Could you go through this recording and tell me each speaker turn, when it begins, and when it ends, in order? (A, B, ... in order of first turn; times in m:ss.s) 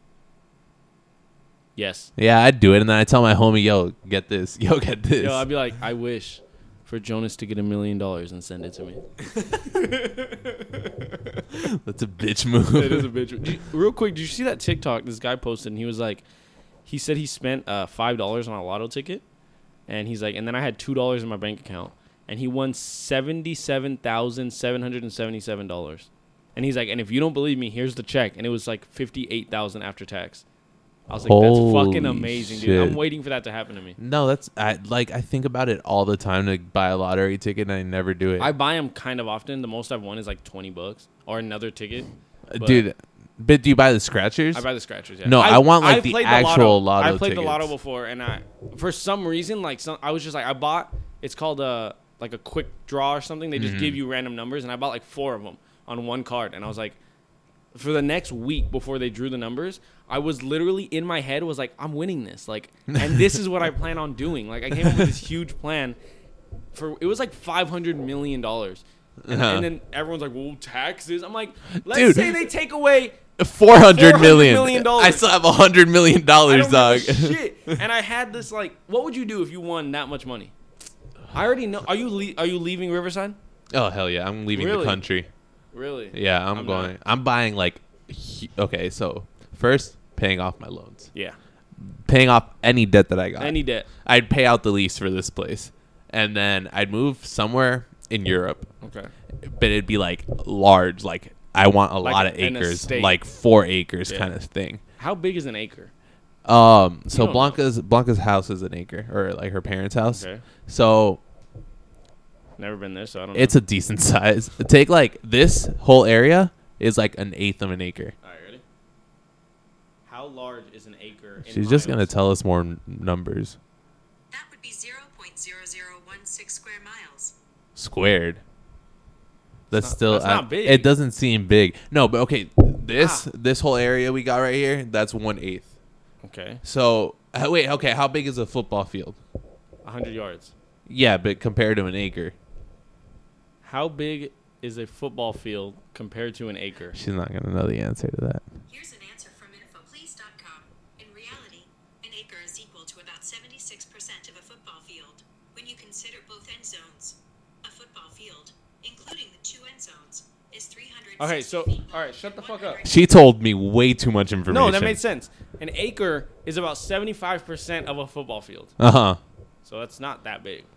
0:01.8-0:02.1 A
0:02.2-0:05.4 B
0:05.2-0:11.0 A
0:11.5-0:13.1 B
0:12.7-0:16.2 A
0:16.8-0:19.2 A
0:19.9-0:30.4 A
0:31.1-0:34.0 A
0:31.2-0:33.0 B
0:34.0-0:38.5 B
0:38.4-0:42.8 A
0:42.5-0:44.6 B
0:44.5-0:57.0 A
0:45.2-0:47.7 B
0:53.5-0:54.0 B
0:57.7-1:06.0 A
1:06.7-1:13.2 A
1:09.2-1:09.7 B
1:11.8-1:12.4 B
1:13.4-1:17.7 B
1:13.8-1:15.3 A
1:16.4-1:20.5 A
1:21.3-1:23.4 A
1:23.7-1:25.3 B
1:24.5-1:25.0 A
1:25.7-1:26.9 A
1:26.1-1:31.1 B
1:31.8-1:38.7 B
1:33.4-1:33.9 A
1:38.8-1:39.1 A
1:39.4-1:44.8 B
1:42.0-1:43.2 A
1:45.0-1:45.9 A
1:46.4-1:51.2 B
1:47.1-1:47.6 A
1:50.1-1:50.4 A
1:52.6-1:53.6 A
1:53.3-1:58.1 B
1:58.2-1:58.6 A
2:00.1-2:02.1 A
2:01.4-2:03.6 B
2:04.3-2:07.3 C
2:07.8-2:08.4 B
2:09.7-2:15.7 B
2:09.7-2:10.9 A
2:13.0-2:13.3 A
2:16.2-2:16.6 A
2:16.6-2:19.2 B
2:19.8-2:20.5 A
2:20.9-2:22.3 B
2:23.6-2:27.0 A
2:26.9-2:28.4 B
2:28.7-2:43.3 C
2:41.2-2:42.8 A
2:42.8-2:45.0 B
2:44.5-2:48.7 A
2:48.8-2:49.2 B
2:49.6-2:50.7 A